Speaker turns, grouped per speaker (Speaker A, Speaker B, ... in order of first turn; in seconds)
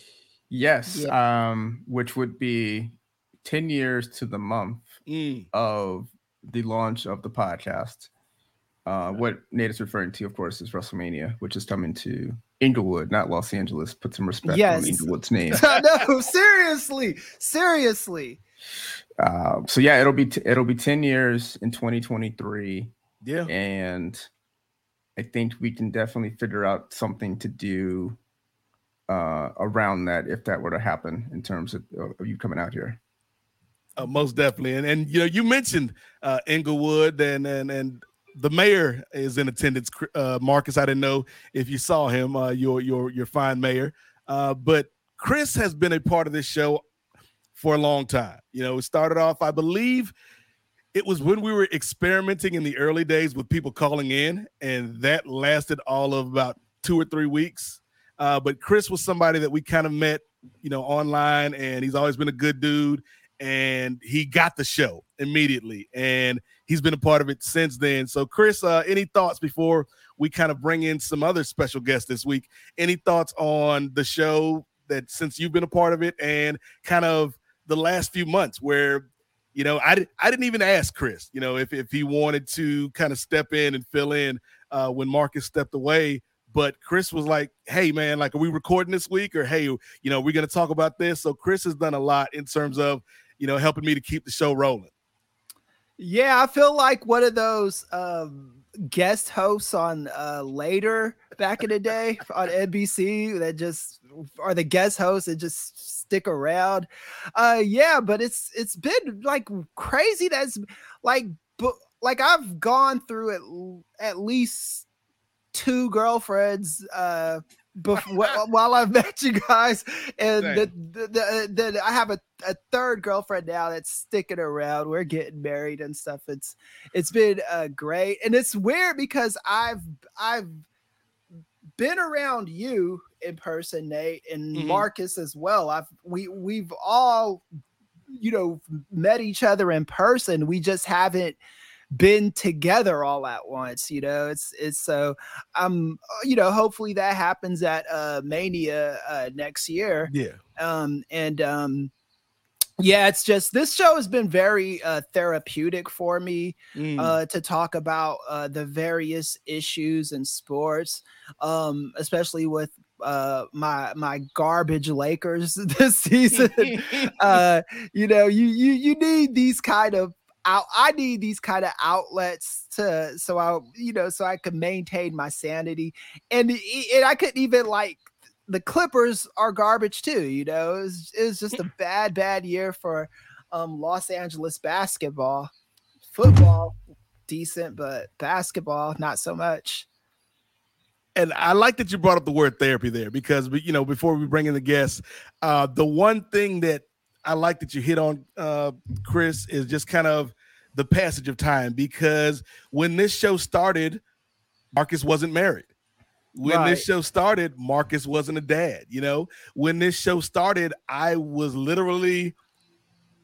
Speaker A: 0.5-5.0, 5.5-8.1, 8.8-15.7, 19.2-22.9, 23.4-24.3, 25.1-28.2, 29.1-33.0
Speaker B: 5.1-5.5, 23.2-23.5, 34.0-46.8, 47.5-50.1, 50.9-94.9, 120.4-120.7, 134.5-134.8, 150.1-150.4, 156.7-157.2, 166.7-167.3, 191.1-204.0, 204.7-205.7, 206.3-212.3
Speaker C: 14.4-18.4, 96.0-114.8, 115.5-130.6, 131.8-137.4, 138.1-141.4, 141.9-151.9, 152.8-185.5, 186.1-186.8, 187.3-189.8, 206.4-206.8